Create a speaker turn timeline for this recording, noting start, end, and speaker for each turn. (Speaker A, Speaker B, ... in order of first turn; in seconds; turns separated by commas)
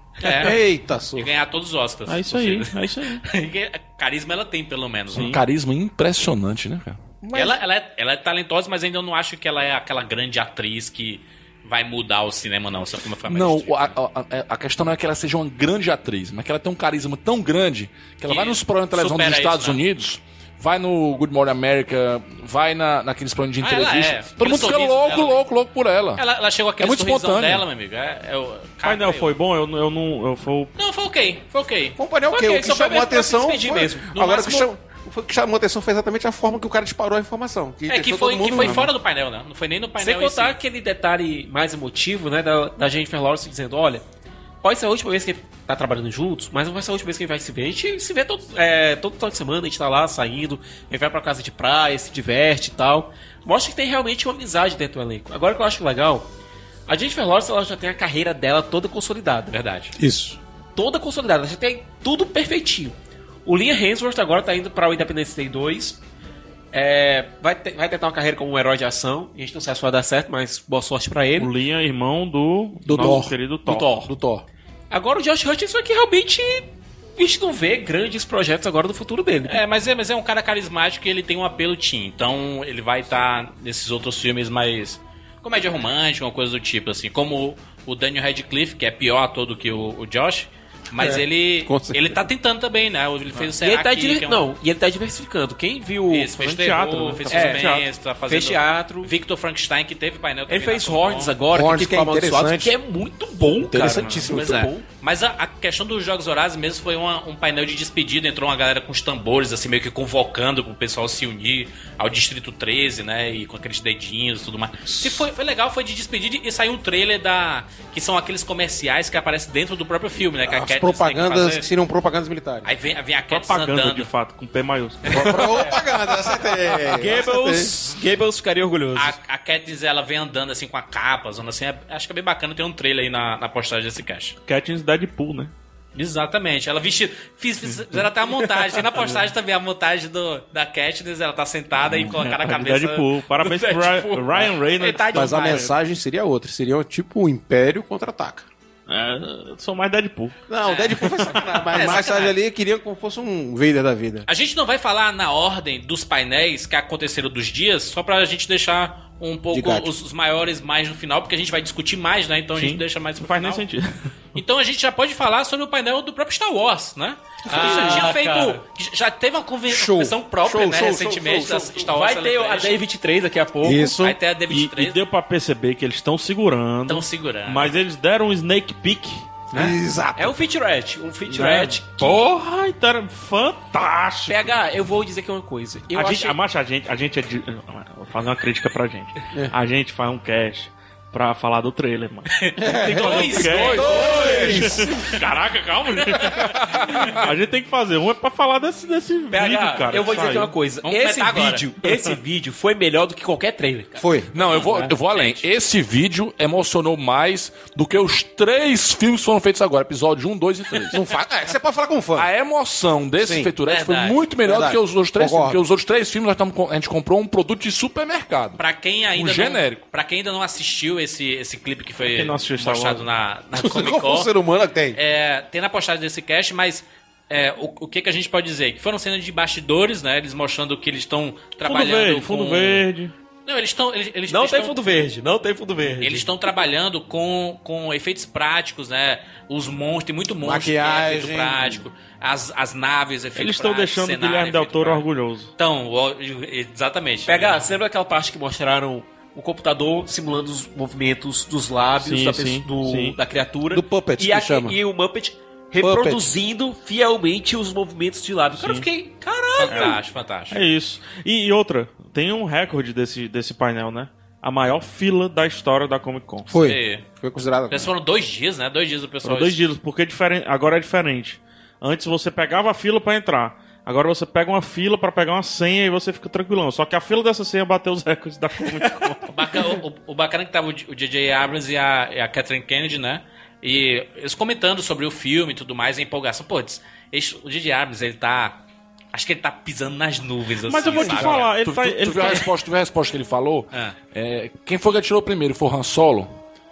Speaker A: 0.2-0.6, Speaker B: 0.3-1.3, Speaker A: 1.2-5.4, Speaker C: 2.1-3.2, Speaker C: 5.1-5.4, Speaker D: 5.1-7.0, Speaker B: 7.2-7.6, Speaker A: 7.3-13.9, Speaker D: 13.3-26.2, Speaker A: 18.2-19.8, Speaker A: 23.6-25.4, Speaker A: 26.1-29.3, Speaker D: 26.8-27.6, Speaker C: 28.8-30.7, Speaker A: 30.8-32.0, Speaker B: 31.9-38.9, Speaker E: 32.3-34.1, Speaker A: 34.1-34.7, Speaker A: 37.9-40.6, Speaker E: 40.0-44.0, Speaker E: 44.6-56.3, Speaker E: 56.9-59.5, Speaker A: 59.5-59.9, Speaker B: 60.0-60.4, Speaker E: 60.8-62.9, Speaker E: 63.5-66.0, Speaker E: 66.7-71.5, Speaker C: 71.4-73.9, Speaker B: 72.8-74.4, Speaker E: 73.7-74.1, Speaker E: 74.9-79.6, Speaker A: 79.4-94.5, Speaker B: 91.0-92.2, Speaker E: 93.6-96.5, Speaker A: 96.1-101.3, Speaker C: 96.4-97.9, Speaker E: 97.3-99.1, Speaker E: 100.5-104.8, Speaker B: 101.5-102.7, Speaker B: 103.6-104.7, Speaker A: 104.3-121.7, Speaker B: 114.9-115.2, Speaker B: 120.4-122.7, Speaker A: 122.6-124.1, Speaker C: 123.3-125.4, Speaker B: 125.0-127.7, Speaker E: 126.9-129.2, Speaker A: 128.9-134.3, Speaker C: 134.4-135.5, Speaker A: 135.9-145.7, Speaker C: 137.7-138.0, Speaker C: 141.8-145.7, Speaker B: 145.1-148.4, Speaker C: 148.9-150.4, Speaker B: 150.5-154.2, Speaker A: 150.6-152.3, Speaker A: 154.3-163.6, Speaker B: 159.5-159.9, Speaker C: 162.5-164.1, Speaker A: 164.3-172.8, Speaker E: 167.4-168.6, Speaker B: 167.5-168.0, Speaker B: 169.7-171.8, Speaker E: 171.8-173.9, Speaker B: 173.6-174.2, Speaker A: 174.0-175.0, Speaker C: 174.5-179.4, Speaker A: 176.9-177.7, Speaker B: 179.5-180.3, Speaker E: 179.5-182.2, Speaker C: 181.3-184.5, Speaker E: 184.3-186.4, Speaker C: 185.9-200.5, Speaker A: 192.3-195.2, Speaker B: 192.6-195.1, Speaker E: 193.7-194.6, Speaker A: 195.9-196.3, Speaker D: 196.7-197.0, Speaker E: 199.3-204.1, Speaker A: 200.8-201.7, Speaker C: 201.8-202.2, Speaker B: 204.0-204.3, Speaker D: 204.3-211.0, Speaker A: 204.4-205.4, Speaker B: 210.9-212.3, Speaker D: 212.1-218.6, Speaker B: 213.2-213.5, Speaker A: 213.7-214.2, Speaker B: 214.4-215.6, Speaker A: 218.6-224.3, Speaker D: 219.1-219.8, Speaker C: 222.0-223.1, Speaker B: 223.5-225.0, Speaker A: 224.9-232.9, Speaker C: 231.6-233.1, Speaker A: 233.4-234.9, Speaker E: 234.3-236.3, Speaker A: 236.0-247.6, Speaker B: 240.4-241.8, Speaker C: 243.3-245.5, Speaker E: 247.2-259.9, Speaker C: 252.0-253.2, Speaker B: 253.7-254.8, Speaker B: 255.8-256.2, Speaker C: 258.6-258.9, Speaker A: 258.8-260.6, Speaker C: 259.6-266.5, Speaker B: 266.5-267.9, Speaker A: 266.5-267.1, Speaker A: 267.7-269.6, Speaker C: 269.2-279.5, Speaker A: 279.3-291.5, Speaker C: 290.6-292.4, Speaker B: 290.9-291.3, Speaker D: 291.3-296.3, Speaker A: 292.2-292.4